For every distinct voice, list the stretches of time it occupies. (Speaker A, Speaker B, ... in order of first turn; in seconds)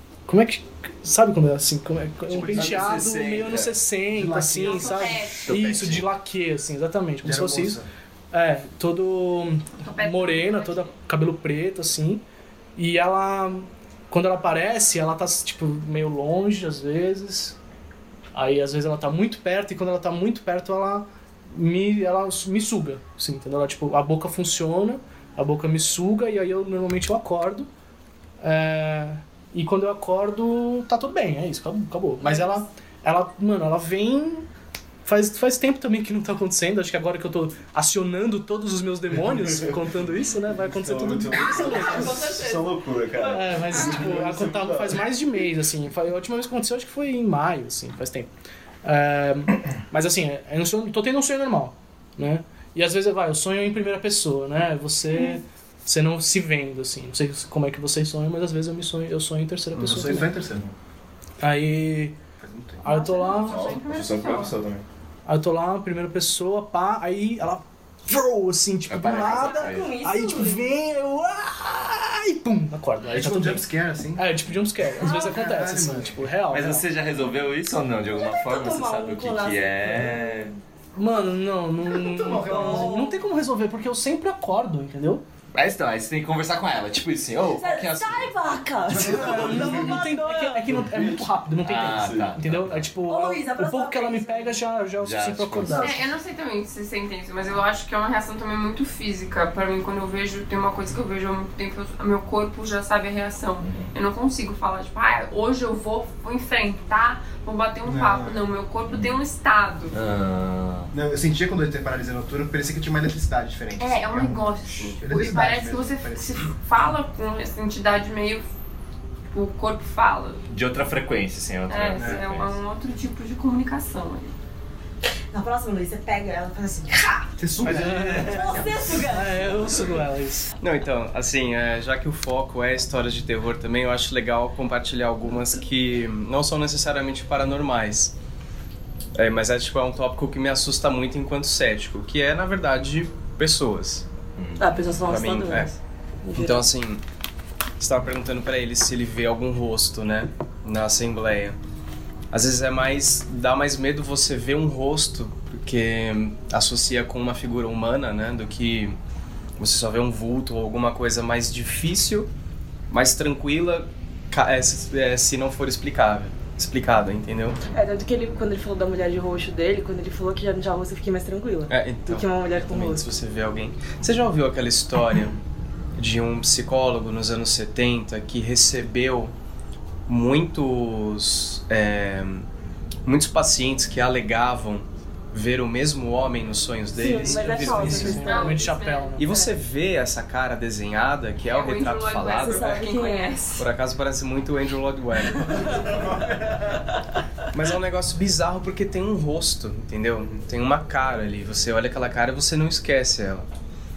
Speaker A: 0.3-7.8, 8.3-12.2, 12.8-17.6, 18.3-27.7, 28.4-34.5, 35.0-42.2, 43.3-48.3, 48.8-60.3, 61.4-62.1, 62.8-63.6, 65.3-76.8, 80.9-85.2, 89.0-95.9, 127.6-130.5, 187.2-189.3
Speaker B: 2.3-3.8, 5.4-6.1, 68.9-69.9, 76.5-80.5, 85.5-88.3, 91.6-92.8, 95.0-95.9, 103.6-103.9, 108.9-109.2, 109.9-110.9, 120.5-122.6, 127.6-128.8, 129.6-130.0
Speaker C: 2.4-3.0, 4.1-4.8, 7.2-7.9, 59.7-60.6, 62.4-62.8, 73.1-74.4, 75.0-76.2, 81.9-83.1, 107.8-108.5, 110.9-116.5, 127.4-128.4
Speaker D: 4.6-5.5, 9.8-10.9, 62.8-64.5, 95.7-109.9, 113.8-118.4, 119.3-120.4, 121.7-124.3, 188.1-189.1, 191.4-193.5
Speaker E: 32.2-32.5, 41.4-43.4, 69.1-70.6, 75.0-75.7, 78.1-80.4, 82.4-83.2, 87.5-90.7, 93.0-94.6, 95.6-96.1, 125.3-127.4, 128.2-129.9, 144.6-145.8, 146.3-146.7, 167.7-173.1, 186.9-189.5, 192.4-193.7, 195.4-196.0
Speaker F: 40.6-45.0, 63.4-64.8, 88.9-89.9, 90.7-92.4, 195.9-196.6
Speaker G: 130.6-138.1, 139.1-144.0, 144.9-145.7, 146.3-147.0, 147.8-151.6, 152.3-159.0, 159.6-162.3, 162.9-167.6, 171.7-175.3, 175.9-179.3, 180.1-182.5, 183.0-188.4, 189.2-192.7, 193.6-195.9, 197.5-203.5